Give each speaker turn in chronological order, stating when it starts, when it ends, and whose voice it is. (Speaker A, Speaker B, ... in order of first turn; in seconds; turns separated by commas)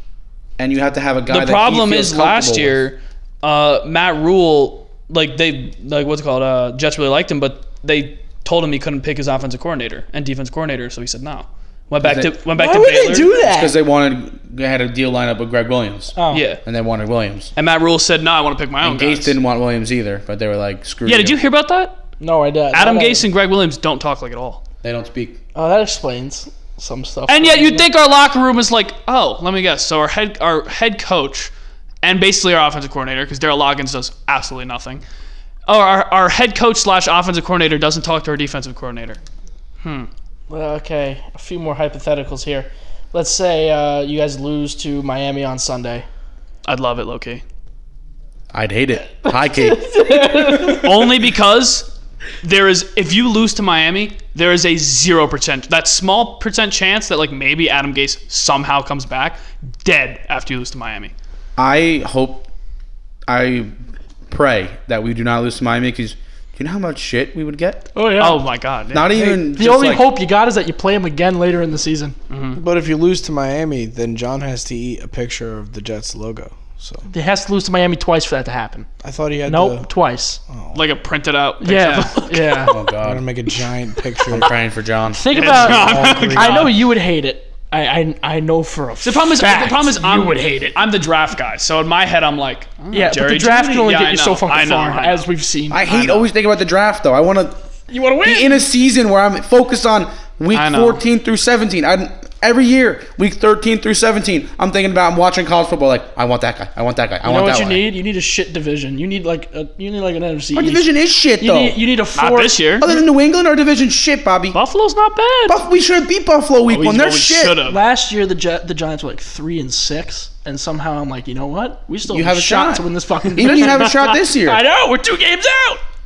Speaker A: 0.6-2.8, Speaker B: 1.3-13.3, Speaker A: 12.0-12.4, Speaker C: 12.5-13.8, Speaker A: 13.4-17.5, Speaker C: 16.2-16.4, Speaker B: 16.3-16.6, Speaker B: 17.6-19.4, Speaker A: 18.8-21.4, Speaker B: 21.1-22.0, Speaker C: 22.2-23.2, Speaker B: 22.7-24.6, Speaker A: 24.8-25.4, Speaker C: 25.6-27.9, Speaker B: 27.3-31.5, Speaker B: 32.0-35.0, Speaker B: 35.7-39.2, Speaker B: 39.8-40.1, Speaker C: 40.5-46.1, Speaker B: 46.6-47.4, Speaker A: 48.5-49.9, Speaker C: 49.3-51.0, Speaker B: 50.5-51.9, Speaker B: 52.4-61.1, Speaker A: 61.6-62.5, Speaker A: 63.3-63.7, Speaker A: 64.3-67.9, Speaker C: 68.0-68.4, Speaker B: 68.2-69.2, Speaker A: 68.9-70.1, Speaker C: 69.2-72.2, Speaker B: 72.3-72.6, Speaker D: 72.5-77.1, Speaker C: 77.1-78.9, Speaker D: 79.0-79.9, Speaker C: 79.5-80.4, Speaker D: 80.5-80.8, Speaker B: 80.7-82.8, Speaker C: 81.6-82.7, Speaker A: 82.7-83.3, Speaker D: 83.0-84.5, Speaker A: 84.3-86.1, Speaker C: 85.1-90.8, Speaker B: 85.3-86.8, Speaker D: 85.9-86.6, Speaker B: 89.0-95.3, Speaker C: 92.9-95.8, Speaker A: 95.7-97.6, Speaker B: 95.9-96.3, Speaker C: 97.9-98.6, Speaker A: 98.2-107.8, Speaker B: 100.5-101.0, Speaker C: 107.2-110.8, Speaker A: 110.5-111.8, Speaker C: 111.4-112.6, Speaker B: 112.2-112.9, Speaker A: 112.8-114.6, Speaker B: 114.5-115.6, Speaker A: 115.5-117.6, Speaker B: 116.7-117.8, Speaker C: 117.7-125.8, Speaker A: 122.1-124.6